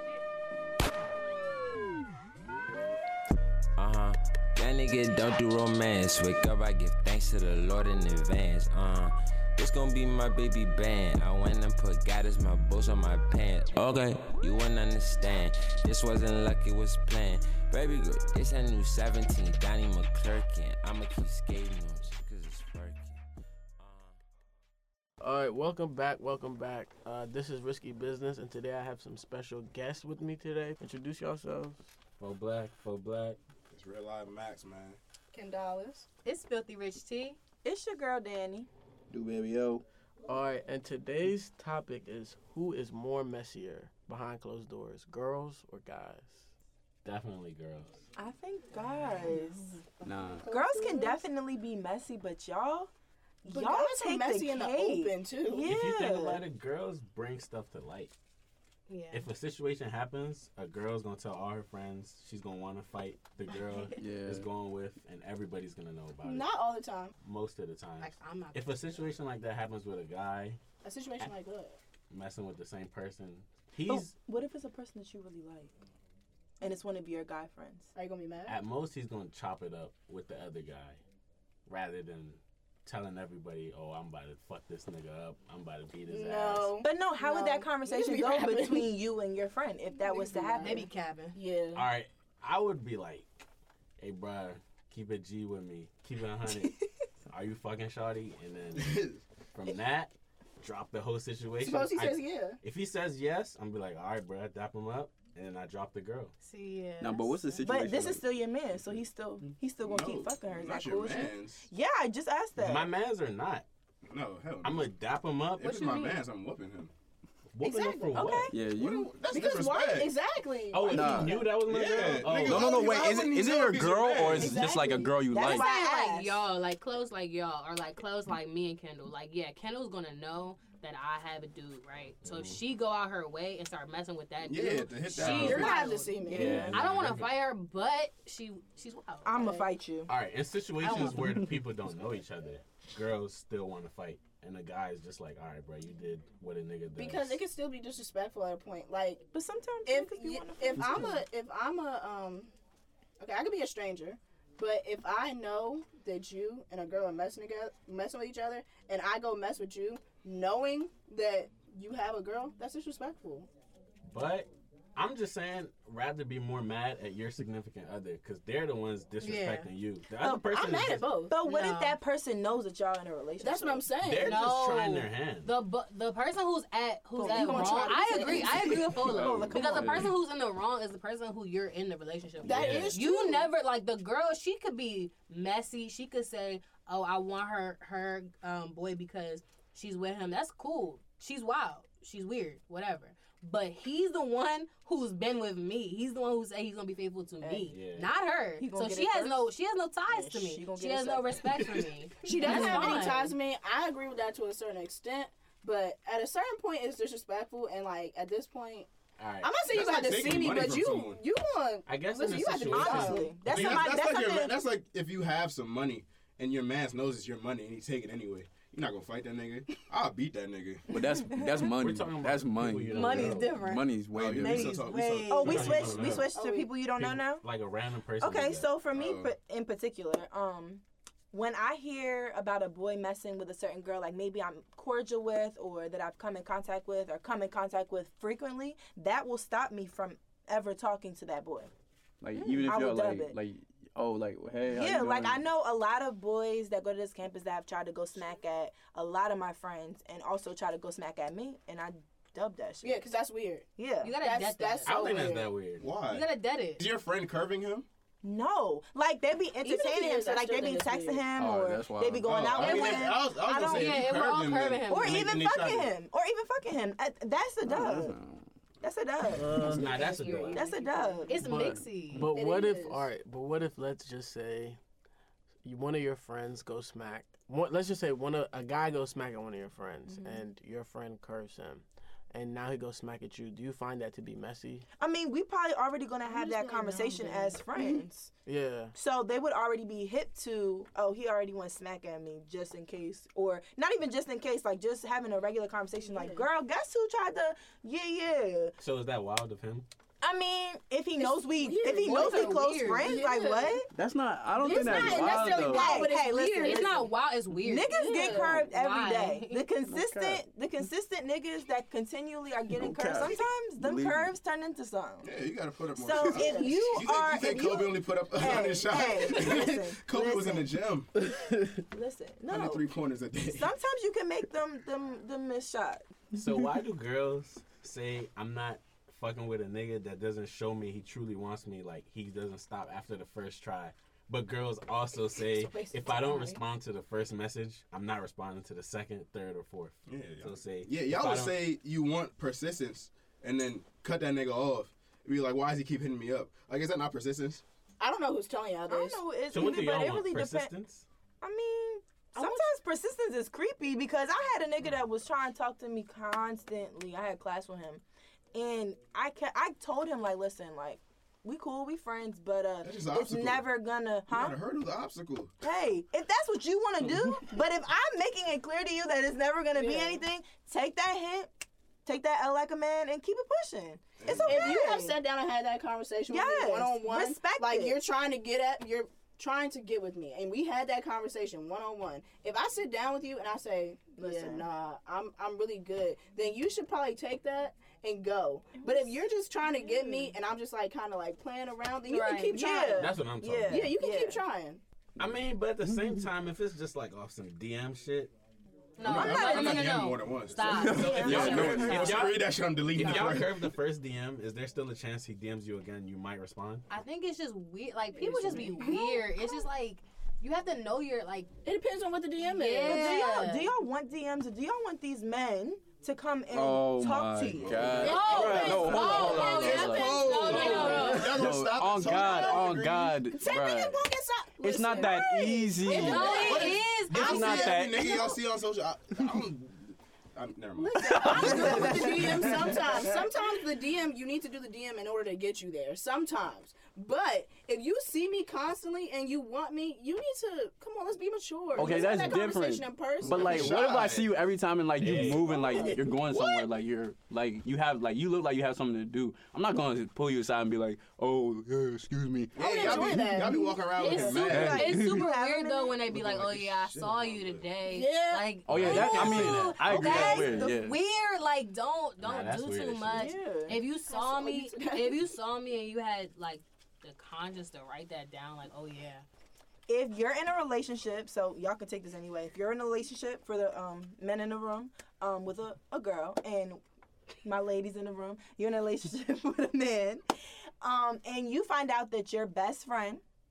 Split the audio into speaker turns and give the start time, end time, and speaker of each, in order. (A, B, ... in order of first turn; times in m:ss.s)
0:03.8-0:23.2 A
0:23.8-0:24.2 A
0:25.2-0:31.9 B
0:32.2-0:33.4 C
0:33.7-0:35.0 D
0:35.3-0:36.1 E
0:36.2-0:37.4 F
0:37.6-0:38.7 G
0:39.1-0:39.8 H
0:40.3-0:46.5 B
0:47.0-0:48.1 C
0:48.2-0:49.8 G
0:50.0-0:51.2 E
0:50.0-0:50.5 H
0:50.5-0:52.9 G
0:53.4-0:56.4 G
0:53.4-0:55.7 E
0:55.7-0:58.1 C
0:58.9-0:59.3 F
0:59.1-1:06.5 C
1:04.0-1:04.5 H
1:06.2-1:07.1 E
1:07.2-1:10.6 C
1:08.0-1:08.7 F
1:10.8-1:11.8 E
1:12.1-1:14.1 C
1:13.9-1:15.7 G
1:16.6-1:17.9 G
1:18.0-1:18.6 E
1:18.5-1:21.0 C
1:21.7-1:26.8 C
1:26.1-1:28.9 E
1:26.8-1:30.9 G
1:29.9-1:31.9 E
1:30.6-1:31.4 F
1:31.7-1:33.4 C
1:34.0-1:36.8 C
1:37.3-1:46.3 C
1:38.8-1:39.2 D
1:41.6-1:42.6 E
1:46.4-1:47.7 F
1:47.0-1:48.3 H
1:47.6-1:52.9 G
1:49.8-1:51.7 D
1:52.6-1:53.7 C
1:54.1-1:54.9 D
1:54.6-1:55.8 C
1:55.6-1:56.9 D
1:55.6-1:56.2 F
1:57.5-1:58.5 C
1:57.6-1:58.5 E
1:58.1-1:58.6 G
1:58.5-1:59.1 H
1:58.6-2:00.1 D
1:59.3-2:01.6 E
2:00.7-2:02.8 C
2:00.9-2:01.4 H
2:01.6-2:04.6 D
2:02.3-2:05.7 H
2:04.4-2:06.4 G
2:04.5-2:05.0 E
2:05.4-2:19.3 F
2:12.2-2:12.6 C
2:14.4-2:15.9 D
2:15.1-2:16.8 E
2:15.2-2:15.7 C
2:16.2-2:16.8 G
2:16.3-2:17.4 C
2:19.2-2:20.1 G
2:19.4-2:19.7 E
2:20.1-2:27.4 C
2:20.8-2:21.2 F
2:27.0-2:29.3 E
2:29.3-2:31.2 G
2:29.9-2:32.5 E
2:33.2-2:43.5 E
2:44.1-2:51.1 C
2:49.2-2:49.7 F
2:50.2-2:53.9 G
2:50.5-2:51.4 E
2:51.2-2:52.0 F
2:53.4-2:54.4 E
2:54.0-2:55.5 C
2:54.2-3:23.3 F
2:57.2-3:00.1 G
2:57.2-2:59.3 E
2:59.1-3:00.1 H
3:02.4-3:03.5 E
3:02.4-3:03.0 C
3:17.4-3:17.8 G
3:17.7-3:18.1 C
3:18.6-3:19.5 G
3:20.1-3:21.7 G
3:22.2-3:28.9 E
3:22.6-3:22.9 G
3:29.2-3:29.6 C
3:29.4-3:33.6 E
3:29.6-3:31.2 D
3:31.9-3:33.9 C
3:32.6-3:34.6 G
3:33.4-3:40.9 D
3:40.9-3:44.9 H
3:40.9-3:41.7 G
3:41.7-3:43.6 C
3:42.9-3:43.9 F
3:44.1-3:46.2 D
3:44.4-3:45.8 F
3:45.3-3:47.4 G
3:45.3-3:46.3 C
3:46.1-3:46.7 E
3:47.0-3:48.7 C
3:48.2-4:01.7 G
3:48.9-3:49.3 D
4:02.2-4:05.4 H
4:02.4-4:02.8 E
4:02.6-4:03.4 G
4:04.7-4:13.0 G
4:12.8-4:13.7 E
4:13.8-4:14.2 G
4:14.0-4:15.1 F
4:14.2-4:15.6 E
4:14.9-4:15.9 C
4:15.8-4:17.9 D
4:16.0-4:16.9 F
4:18.2-4:24.1 G
4:19.6-4:21.3 E
4:21.4-4:22.8 H
4:22.2-4:25.9 D
4:23.6-4:25.2 F
4:24.9-4:28.2 G
4:27.7-4:28.4 H
4:28.8-4:29.8 G
4:29.4-4:30.7 C
4:29.5-4:29.8 B
4:29.6-4:32.3 F
4:29.8-4:31.3 E
4:30.5-4:31.6 G
4:31.3-4:34.8 B
4:32.2-4:33.1 E
4:35.6-4:44.9 B
4:40.1-4:40.4 G
4:45.0-4:48.3 G
4:46.2-4:48.0 E
4:48.5-4:48.9 B
4:48.9-4:58.7 G
4:56.1-4:56.5 E
4:58.8-4:59.9 C
5:00.2-5:03.9 G
5:01.2-5:03.8 E
5:02.0-5:03.2 F
5:03.9-5:06.1 H
5:04.6-5:07.1 E
5:04.7-5:15.3 G
5:06.6-5:09.7 F
5:07.9-5:08.7 E
5:09.9-5:10.4 H
5:12.7-5:14.3 H
5:15.2-5:21.1 D
5:16.0-5:20.7 G
5:16.2-5:17.1 E
5:21.3-5:21.8 H
5:21.9-5:22.9 G
5:22.5-5:23.7 D
5:23.5-5:26.1 G
5:26.3-5:41.6 C
5:35.6-5:36.6 E
5:40.1-5:47.6 D
5:48.0-5:49.2 E
5:48.9-5:50.7 G
5:49.5-5:51.1 C
5:51.4-5:58.0 G
5:52.4-5:52.7 E
5:58.5-6:04.6 G
6:02.8-6:03.7 D
6:04.3-6:05.5 D
6:05.6-6:11.5 G
6:09.7-6:10.2 E
6:12.0-6:15.2 G
6:14.2-6:14.8 D
6:14.4-6:33.2 E
6:16.3-6:18.0 G
6:24.2-6:24.7 G
6:28.8-6:29.2 G
6:29.8-6:30.3 G
6:32.1-6:32.6 F
6:32.5-6:34.4 G
6:33.0-6:33.9 C
6:33.7-6:34.8 E
6:35.2-6:38.3 C
6:39.0-6:42.1 F
6:39.0-6:43.6 D
6:39.0-6:40.0 G
6:40.7-6:46.9 C
6:40.7-6:42.3 H
6:40.7-6:42.3 G
6:42.9-6:43.4 H
6:46.9-6:51.5 F
6:48.2-6:49.3 E
6:51.6-6:53.3 E
6:52.4-6:53.7 F
6:52.8-6:58.7 G
6:56.5-7:04.1 H
6:57.6-6:58.1 D
6:57.9-7:01.3 E
6:58.0-7:01.3 F
6:58.9-7:03.3 D
7:00.6-7:01.1 G
7:01.9-7:07.0 E
7:04.6-7:06.5 H
7:04.9-7:06.5 G
7:05.9-7:07.8 F
7:06.4-7:12.5 D
7:07.2-7:08.2 H
7:07.5-7:08.2 E
7:10.8-7:23.8 E
7:11.0-7:11.9 H
7:11.4-7:12.4 G
7:21.7-7:33.3 H
7:23.2-7:24.4 D
7:25.0-7:25.8 D
7:25.0-7:25.4 C
7:25.0-7:26.6 E
7:32.6-7:34.9 D
7:32.6-7:33.8 E
7:34.0-7:49.2 F
7:34.4-7:35.2 H
7:34.5-7:36.0 G
7:36.0-7:37.7 D
7:37.9-7:38.5 E
7:38.7-7:41.0 H
7:38.7-7:40.4 C
7:38.8-7:39.4 D
7:39.9-7:40.8 G
7:42.2-7:43.3 C
7:43.1-7:43.8 G
7:43.7-7:45.3 E
7:49.9-7:56.8 G
7:57.4-8:03.2 G